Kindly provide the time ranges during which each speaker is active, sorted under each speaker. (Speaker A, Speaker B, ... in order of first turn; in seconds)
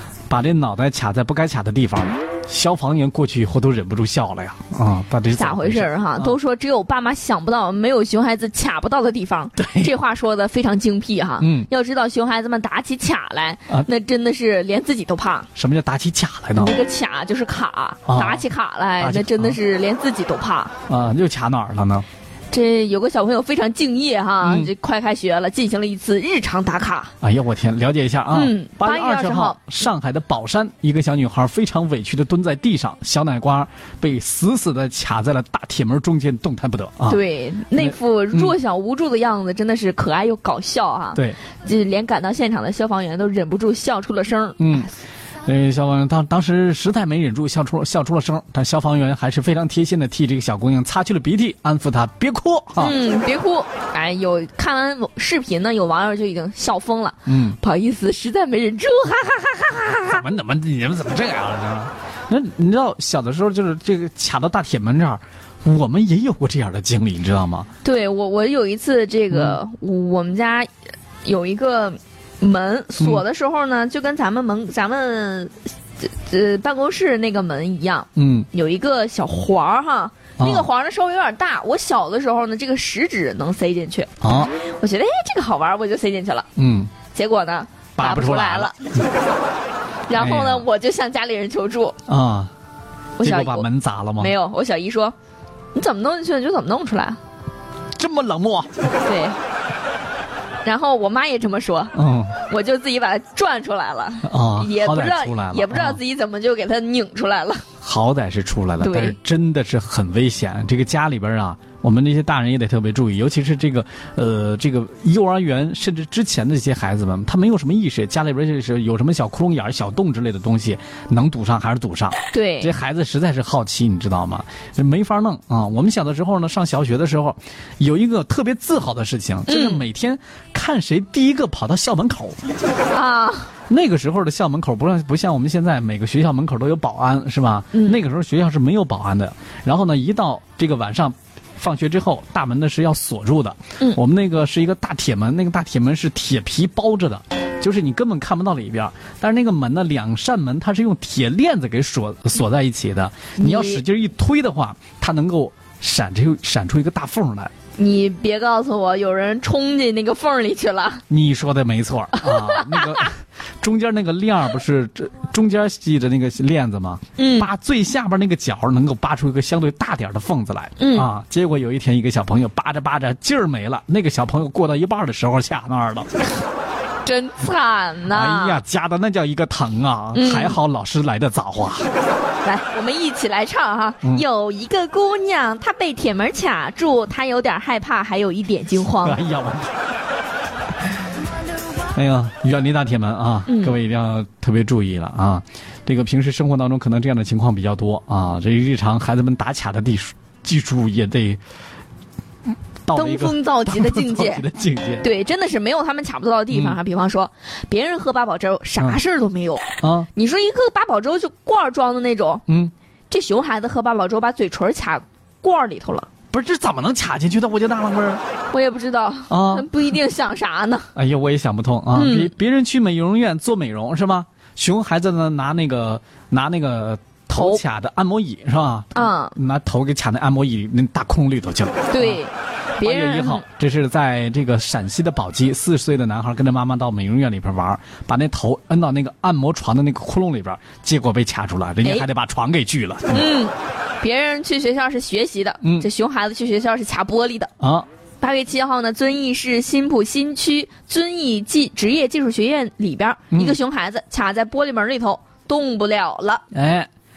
Speaker A: 0.3-6.3, 9.6-9.9, 11.4-11.7, 15.5-16.7, 18.1-18.4, 19.0-19.6, 20.9-22.1, 24.4-24.7, 27.2-37.2, 37.7-38.5, 44.6-44.9, 45.5-52.9, 57.3-57.6, 60.0-67.7, 69.3-69.6, 73.0-73.2, 78.2-78.5, 80.4-80.7, 84.2-84.5, 86.5-86.9, 88.0-88.7, 90.1-90.7, 92.1-92.5, 93.2-94.3, 97.9-98.7, 101.9-102.4, 104.2-106.0, 107.8-132.4, 133.7-157.5, 161.1-176.1, 178.1-181.9, 189.0-189.7, 191.9-201.4, 202.8-205.1, 206.5-206.8, 209.8-210.1, 212.5-212.7, 216.3-218.2, 219.3-219.7, 220.9-232.2, 232.8-243.3, 245.6-245.9, 247.6-247.9, 253.3-253.6, 256.5-256.9
Speaker B: 5.3-15.5, 16.5-20.7, 22.5-27.1, 28.3-29.6, 37.1-44.9, 52.8-60.2, 67.8-70.7, 71.2-86.5, 87.1-88.8, 90.1-92.0, 93.2-93.7, 94.2-95.1, 95.7-97.2, 99.0-99.4, 100.6-107.7, 108.8-109.2, 122.3-122.7, 129.5-129.8, 132.9-133.5, 137.7-138.0, 153.4-153.8, 157.8-161.0, 162.1-163.1, 167.2-167.5, 170.8-171.1, 177.0-178.6, 180.1-180.6, 182.4-189.2, 193.5-193.8, 202.9-204.4, 205.0-212.4, 213.1-216.1, 218.5-220.9, 221.9-222.3, 227.3-227.6, 228.9-229.3, 231.9-233.4, 243.1-247.5, 248.2-256.4